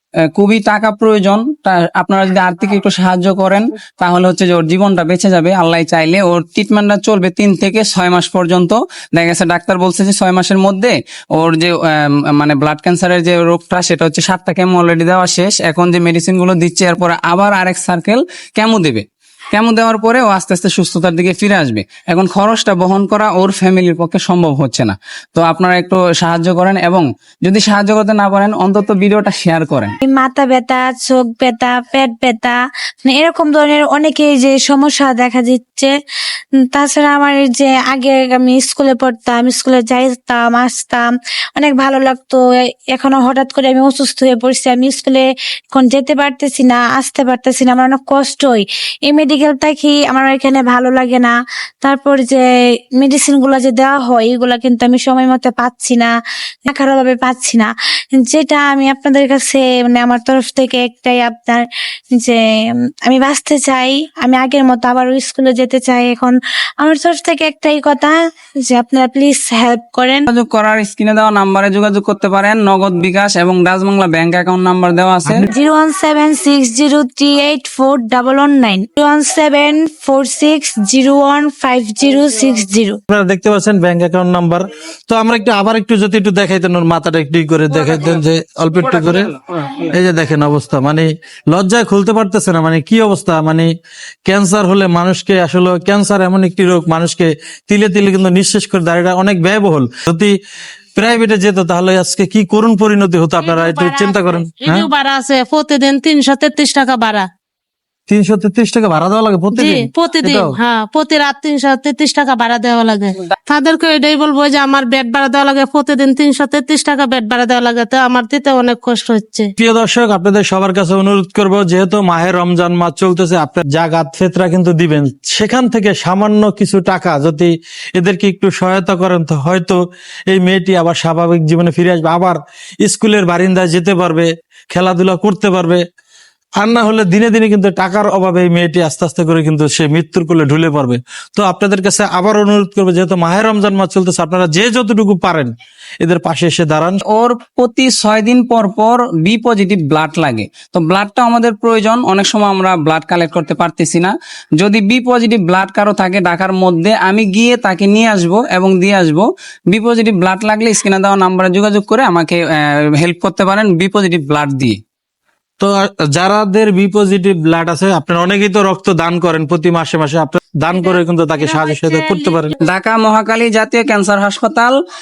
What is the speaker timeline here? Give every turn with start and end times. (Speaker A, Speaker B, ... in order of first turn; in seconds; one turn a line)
Speaker A: 0.3-29.9
Speaker B: 30.0-35.9
Speaker B: 36.7-56.1
Speaker B: 56.6-62.4
Speaker B: 63.0-68.1
Speaker B: 68.7-70.2
Speaker A: 70.3-75.5
Speaker B: 75.5-83.0
Speaker C: 83.1-89.3
Speaker C: 89.8-93.7
Speaker C: 94.2-100.3
Speaker C: 101.0-104.9
Speaker B: 103.5-104.4
Speaker D: 104.6-107.3
Speaker C: 108.1-110.5
Speaker D: 109.5-119.5
Speaker C: 119.6-135.8
Speaker C: 136.6-145.5
Speaker C: 146.0-147.0
Speaker A: 147.1-164.8
Speaker C: 165.6-172.5
Speaker D: 171.4-172.5
Speaker A: 172.6-174.8